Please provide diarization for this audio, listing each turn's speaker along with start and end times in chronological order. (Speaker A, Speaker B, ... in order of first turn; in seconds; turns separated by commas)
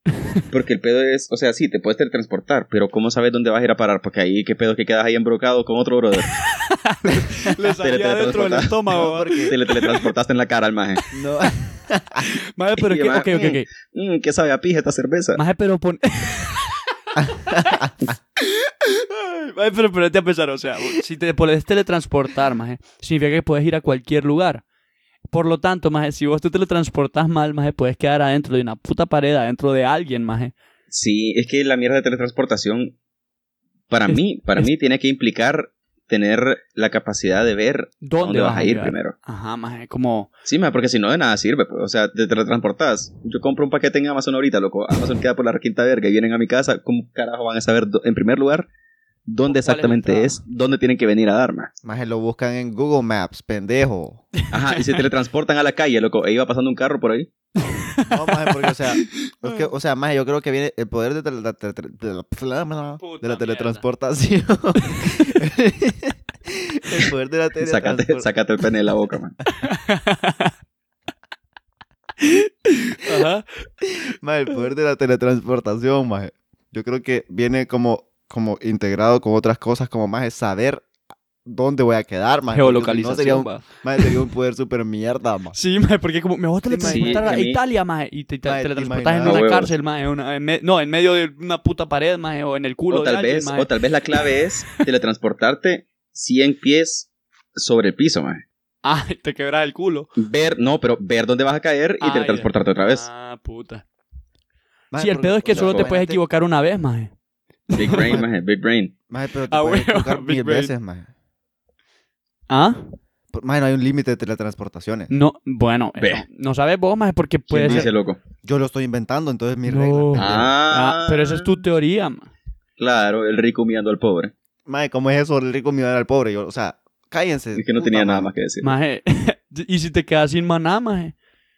Speaker A: 0.1-0.4, Speaker B: 0.5-6.3, Speaker A: 6.3-10.1, Speaker B: 7.8-11.0, Speaker C: 8.9-9.5, Speaker A: 11.1-11.5, Speaker C: 11.1-12.3, Speaker A: 12.2-13.7, Speaker B: 12.8-15.4, Speaker A: 15.4-24.6, Speaker C: 17.2-17.9, Speaker A: 25.3-30.5, Speaker B: 30.9-32.9, Speaker B: 33.9-39.1, Speaker A: 34.1-34.7, Speaker A: 38.0-40.3, Speaker B: 40.5-48.7, Speaker B: 49.3-51.7, Speaker A: 49.5-50.4, Speaker C: 51.8-54.2, Speaker A: 54.4-54.9, Speaker B: 54.5-57.3, Speaker A: 57.6-59.6, Speaker C: 58.1-68.3, Speaker A: 63.0-63.8, Speaker A: 64.8-65.3, Speaker B: 67.6-69.4, Speaker A: 69.5-70.5, Speaker A: 72.2-73.5, Speaker C: 73.8-80.9, Speaker C: 81.5-85.6, Speaker A: 82.5-84.1, Speaker A: 85.5-93.7, Speaker C: 86.7-87.4, Speaker B: 86.8-87.6, Speaker C: 88.5-89.4, Speaker B: 89.2-89.7, Speaker B: 92.9-98.4, Speaker A: 98.8-100.1, Speaker B: 100.2-103.1, Speaker A: 102.0-103.8, Speaker C: 104.9-106.2, Speaker A: 105.0-107.1, Speaker B: 105.5-105.9, Speaker A: 107.7-108.2, Speaker B: 107.8-108.9, Speaker C: 107.9-108.3, Speaker C: 109.1-111.1, Speaker A: 109.5-110.7, Speaker A: 112.5-112.8, Speaker C: 113.3-115.1, Speaker A: 115.1-117.9, Speaker B: 116.0-116.2, Speaker B: 117.5-118.2, Speaker C: 117.6-117.9, Speaker C: 118.4-120.5, Speaker A: 119.7-122.3, Speaker B: 120.2-121.6, Speaker B: 122.8-124.3, Speaker C: 124.7-128.3, Speaker B: 127.5-128.7, Speaker A: 128.6-131.2